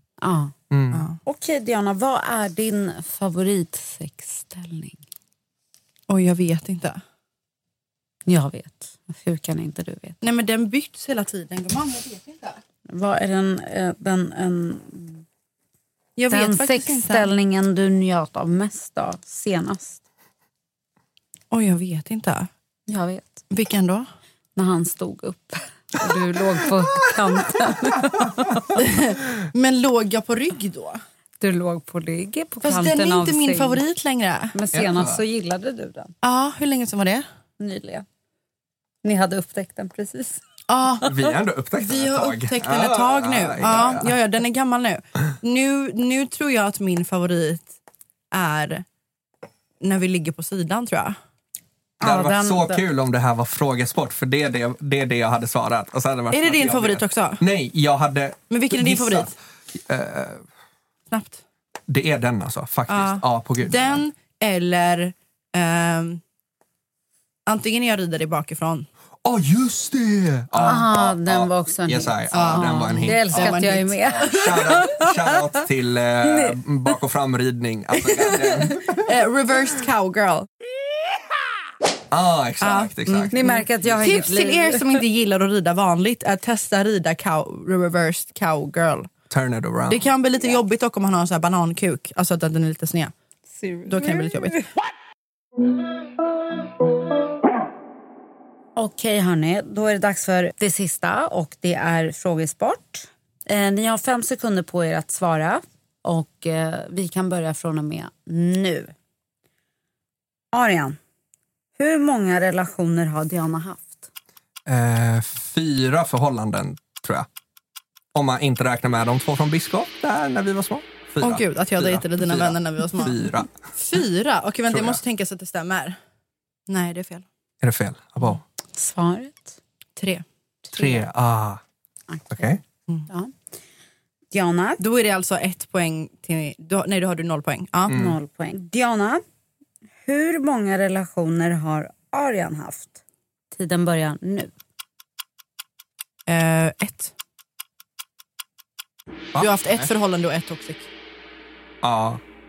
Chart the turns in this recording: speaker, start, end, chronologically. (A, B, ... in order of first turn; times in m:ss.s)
0:00.2-0:00.5 A
0:00.7-0:01.0 B
0:00.9-0:01.2 C
0:01.2-0:05.0 A
0:06.1-0:07.0 C
0:08.2-0:10.2 A
0:10.2-0:12.6 C
0:12.9-0:15.2 A
0:16.2-0:17.3 C
0:16.3-0:20.0 A
0:21.5-0:22.5 C
0:22.9-0:23.4 A
0:23.5-0:24.1 C
0:24.6-0:28.6 A
0:28.7-0:31.0 C
0:31.4-0:33.8 A
0:32.6-0:34.5 C
0:34.5-0:36.1 A
0:34.7-0:35.2 B
0:36.2-0:37.2 C
0:37.6-0:38.0 A
0:39.0-0:40.4 A
0:40.7-0:41.1 C
0:41.1-0:44.1 B
0:41.8-0:47.7 C
0:48.3-0:48.8 C
0:49.8-0:51.2 C
0:52.0-0:52.8 A
0:52.0-1:00.4 B
0:56.3-0:57.4 C
0:58.5-0:59.3 C
1:01.1-1:01.4 C
1:01.9-1:04.0 B
1:02.9-1:06.2 C
1:07.5-1:08.9 C
1:09.2-1:19.1 B
1:10.6-1:15.1 A
1:12.3-1:15.1 C
1:16.2-1:16.6 A
1:18.0-1:20.5 C
1:22.1-1:23.3 B
1:22.6-1:29.1 C
1:23.3-1:25.0 A
1:29.3-1:30.0 B
1:29.9-1:33.1 C
1:33.5-1:34.6 A
1:33.8-1:34.6 C
1:38.8-1:48.9 A
1:50.5-1:51.0 A
1:51.8-1:54.0 A
1:54.6-1:57.3 B
1:58.1-2:03.5 B
2:01.2-2:06.0 C
2:04.7-2:05.0 B
2:06.7-2:07.2 C
2:07.6-2:08.4 B
2:08.7-2:09.6 A
2:10.0-2:10.2 C
2:10.6-2:11.1 A
2:10.7-2:11.6 B
2:12.1-2:13.3 A
2:12.3-2:12.6 B
2:14.3-2:14.8 A
2:14.8-2:18.0 C
2:17.9-2:18.1 B
2:17.9-2:19.2 A
2:20.0-2:23.0 A
2:23.5-2:24.5 A
2:26.3-2:27.1 C
2:29.3-2:29.9 B
2:29.4-2:30.9 C
2:31.8-2:32.2 B